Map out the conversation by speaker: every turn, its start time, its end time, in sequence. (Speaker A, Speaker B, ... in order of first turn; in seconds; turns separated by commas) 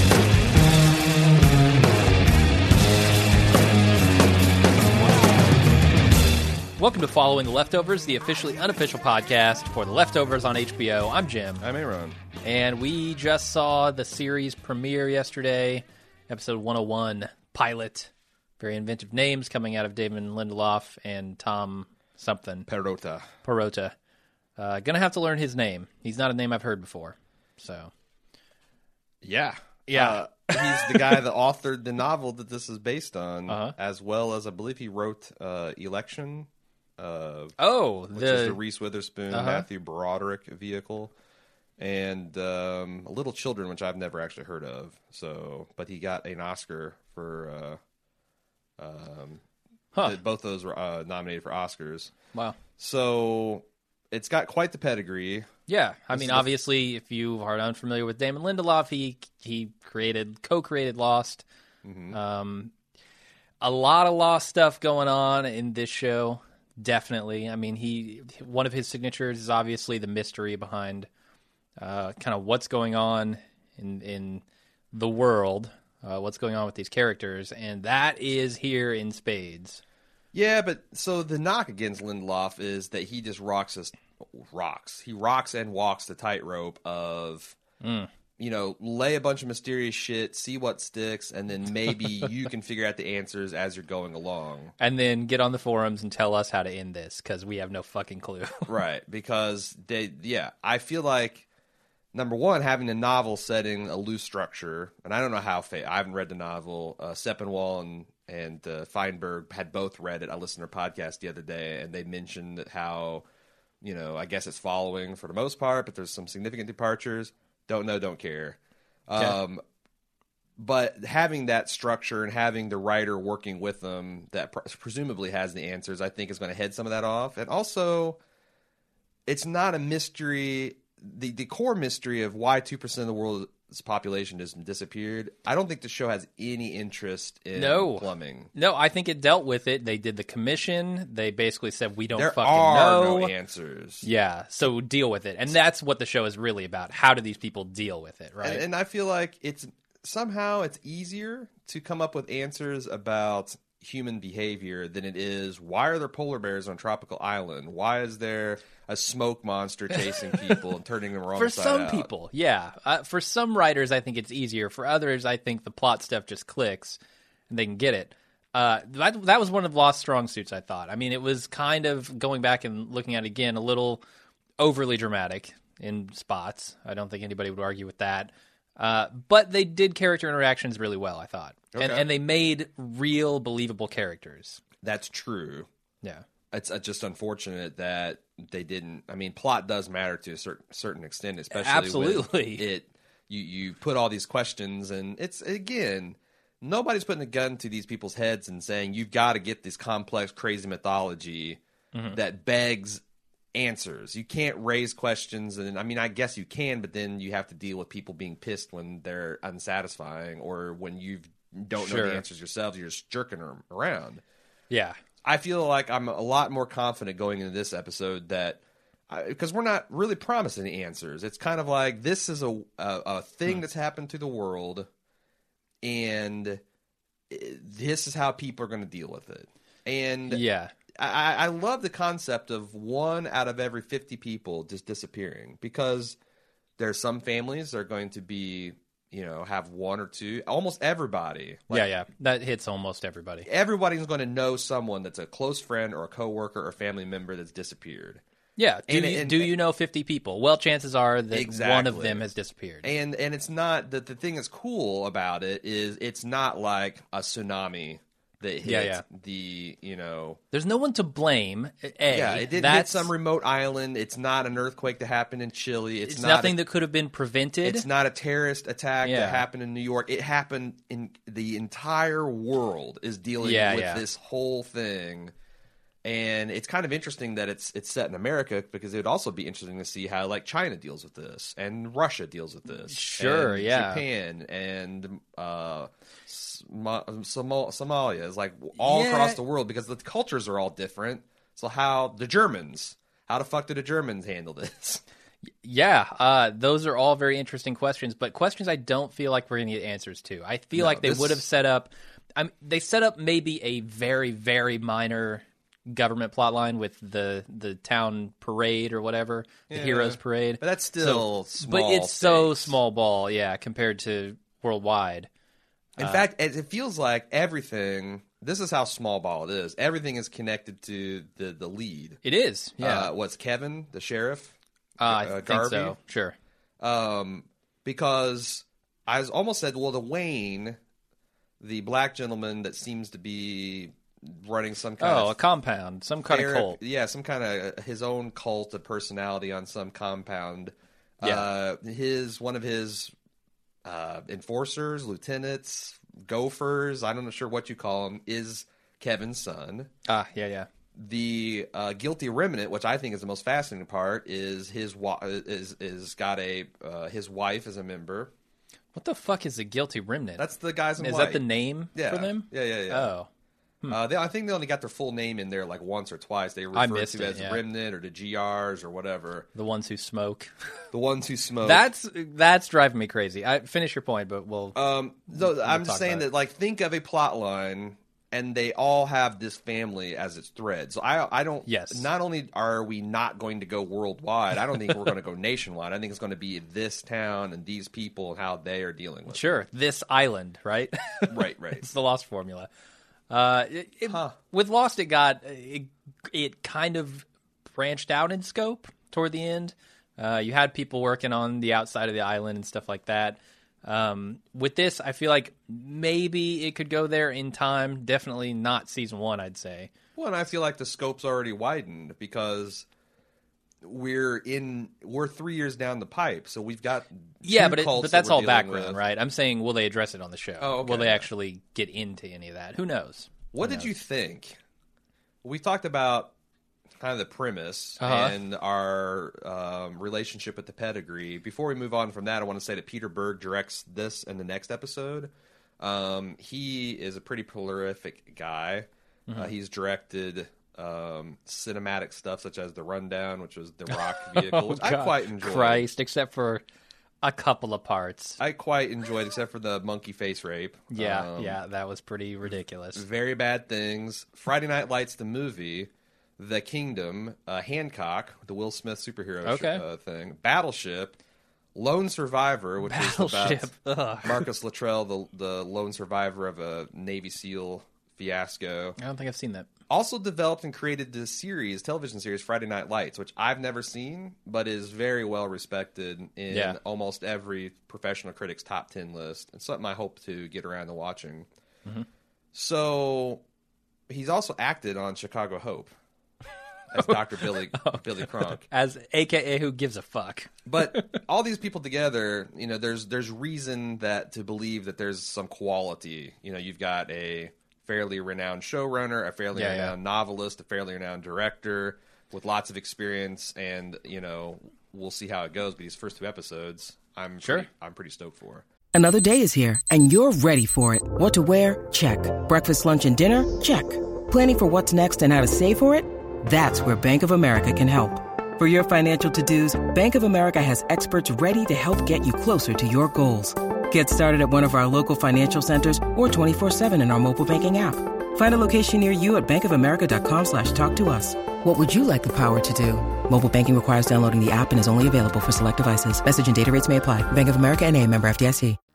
Speaker A: 6.8-11.7, Speaker B: 11.6-12.2, Speaker A: 12.4-22.7, Speaker B: 22.7-23.3, Speaker A: 23.4-23.9, Speaker A: 24.6-27.9, Speaker B: 29.2-37.6, Speaker A: 29.9-31.2, Speaker A: 33.5-33.8, Speaker A: 37.6-38.6, Speaker B: 38.1-41.1, Speaker A: 39.3-39.7, Speaker B: 41.8-47.8, Speaker B: 48.8-49.4, Speaker B: 50.0-52.1, Speaker B: 52.8-55.5, Speaker A: 55.7-61.4, Speaker B: 56.1-56.5, Speaker B: 61.8-62.2, Speaker A: 62.1-62.7, Speaker A: 63.6-71.1, Speaker A: 71.8-79.8, Speaker B: 80.3-87.6, Speaker A: 87.8-88.1, Speaker B: 88.4-94.7, Speaker A: 94.8-98.7, Speaker B: 98.7-101.5, Speaker B: 102.1-113.2, Speaker B: 113.8-119.6, Speaker B: 120.6-128.2, Speaker B: 129.3-138.5, Speaker A: 137.6-143.3, Speaker B: 142.2-144.1, Speaker A: 144.0-148.6, Speaker B: 148.4-162.1, Speaker A: 161.4-167.0, Speaker A: 167.5-174.0, Speaker A: 174.6-184.6, Speaker B: 181.7-182.1, Speaker B: 184.8-185.7, Speaker B: 186.5-201.6, Speaker A: 191.5-192.7, Speaker B: 202.1-203.0, Speaker B: 203.5-214.2, Speaker A: 211.8-212.2, Speaker A: 214.7-215.0, Speaker B: 215.2-224.9, Speaker B: 225.8-226.6, Speaker B: 227.3-230.4, Speaker A: 230.3-230.7, Speaker B: 230.9-236.2, Speaker B: 236.8-241.9, Speaker A: 241.7-243.5, Speaker B: 243.4-248.2, Speaker A: 248.6-252.9, Speaker B: 248.9-249.5, Speaker B: 251.3-252.2, Speaker B: 252.8-260.4, Speaker A: 258.6-259.0, Speaker A: 260.5-263.1, Speaker B: 262.1-266.6, Speaker A: 266.1-267.9, Speaker B: 267.6-275.3, Speaker A: 269.0-269.5, Speaker A: 273.4-274.0, Speaker B: 276.0-295.0, Speaker A: 282.9-284.0, Speaker A: 288.8-289.4, Speaker A: 295.6-315.3, Speaker B: 300.8-301.4, Speaker B: 309.7-312.8, Speaker A: 316.0-316.2, Speaker B: 316.0-322.2, Speaker A: 322.2-323.1, Speaker B: 322.8-326.0, Speaker A: 325.0-326.4, Speaker B: 326.8-330.8, Speaker B: 331.6-335.4, Speaker A: 335.0-336.8, Speaker B: 336.3-343.1, Speaker A: 341.2-341.5, Speaker B: 343.9-349.9, Speaker A: 350.1-350.7, Speaker B: 350.9-358.3, Speaker A: 358.9-360.5, Speaker B: 360.4-361.4, Speaker A: 361.0-363.3, Speaker B: 361.9-363.1, Speaker B: 363.9-369.5, Speaker A: 366.7-367.6, Speaker A: 369.6-370.5, Speaker B: 370.9-371.9, Speaker A: 371.6-376.3, Speaker B: 374.8-389.5, Speaker A: 381.7-382.1, Speaker A: 389.3-392.7, Speaker B: 391.3-391.9, Speaker A: 393.3-409.9, Speaker B: 394.1-394.4, Speaker B: 410.2-412.9, Speaker B: 413.8-419.0, Speaker A: 417.4-423.9, Speaker B: 420.6-421.3, Speaker B: 423.5-424.6, Speaker B: 425.4-426.3, Speaker B: 427.0-445.9, Speaker A: 428.0-428.4, Speaker A: 443.9-446.6, Speaker A: 447.2-448.4, Speaker B: 448.4-451.6, Speaker A: 450.9-453.1, Speaker B: 452.9-461.2, Speaker A: 459.4-459.8, Speaker B: 461.8-463.7, Speaker A: 462.9-464.5, Speaker B: 464.2-469.0, Speaker A: 469.0-469.7, Speaker B: 469.9-481.5, Speaker A: 476.5-476.8, Speaker B: 482.5-483.4, Speaker B: 484.1-485.9, Speaker B: 486.9-488.6, Speaker A: 486.9-491.2, Speaker B: 490.7-508.6, Speaker A: 499.5-499.9, Speaker A: 507.4-507.7, Speaker C: 508.9-538.8